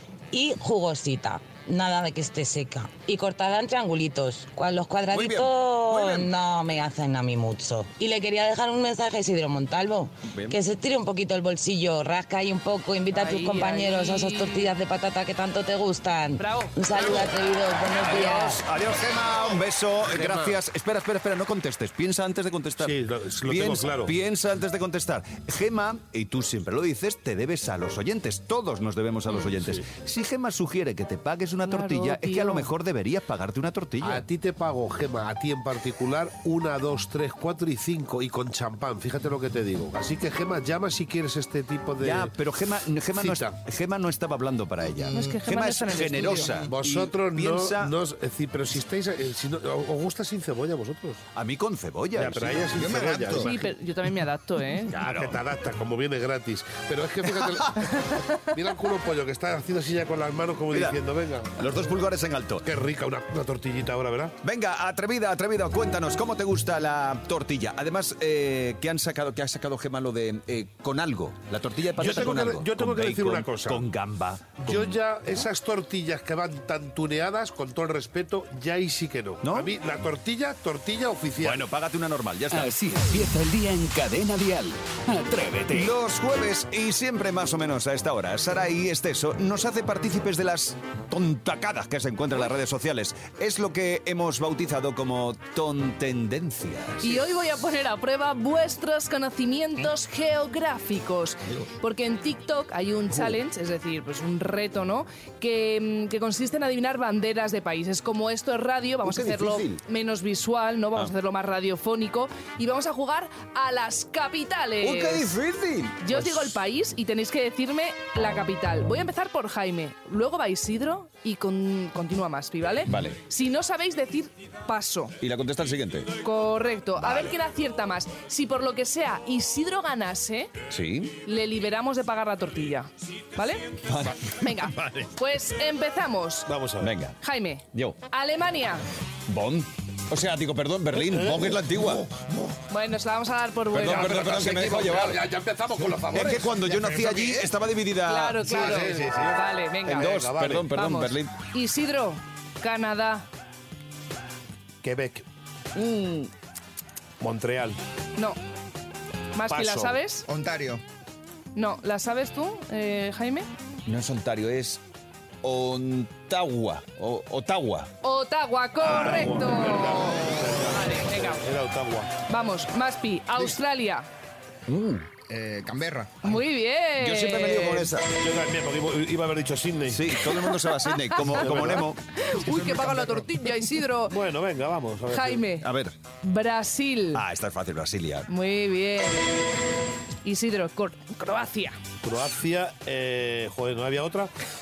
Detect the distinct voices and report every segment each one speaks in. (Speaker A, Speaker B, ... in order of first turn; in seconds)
Speaker A: 0.3-18.6
Speaker B: 5.1-6.3, 10.3-10.6, 18.0-34.2, 42.0-47.9, 51.4-52.7, 54.9-55.4, 60.7-61.0, 61.6-62.6, 64.4-74.9, 79.4-79.7, 81.4-82.7, 85.7-97.2, 109.0-109.8, 114.8-116.6, 122.9-123.2, 125.2-126.1, 127.0-127.3, 130.7-131.2, 133.9-134.2, 136.8-137.2, 137.7-138.0, 139.3-142.1, 143.7-145.3, 146.1-148.8, 149.9-151.3, 155.8-156.3, 163.9-164.8, 165.4-167.9, 174.7-175.1, 177.0-178.1, 179.9-182.0, 185.6-185.9, 187.1-188.3
Speaker C: 13.1-14.7, 16.4-16.8, 31.6-32.7, 45.1-46.5, 53.4-54.9, 97.0-115.3, 116.0-125.2, 126.2-130.5, 131.2-133.7, 134.3-136.5, 137.2-138.8, 142.7-144.3, 148.1-150.1, 150.7-153.3, 159.3-160.2, 161.6-163.5, 168.0-170.1, 170.7-171.4, 172.3-174.1, 176.2-177.9, 180.6-181.4, 182.1-184.2, 185.1-185.7, 186.2-187.2, 188.3-189.3, 190.2-191.8
Speaker D: 20.1-20.6, 22.8-24.1, 34.0-42.3, 43.2-43.5, 46.7-51.2, 52.1-53.7, 55.0-61.7, 62.6-64.3, 72.0-73.9, 74.6-81.7, 136.5-136.9, 140.9-142.0, 143.8-147.2, 148.4-150.7, 154.8-155.2, 157.2-157.8, 159.5-160.0, 168.8-172.1, 178.2-180.2, 181.2-181.9, 182.5-183.3, 184.1-185.4, 192.0-194.3
Speaker E: 52.8-53.5, 160.3-160.8, 170.1-170.6, 175.3-176.3
Speaker F: 82.5-85.9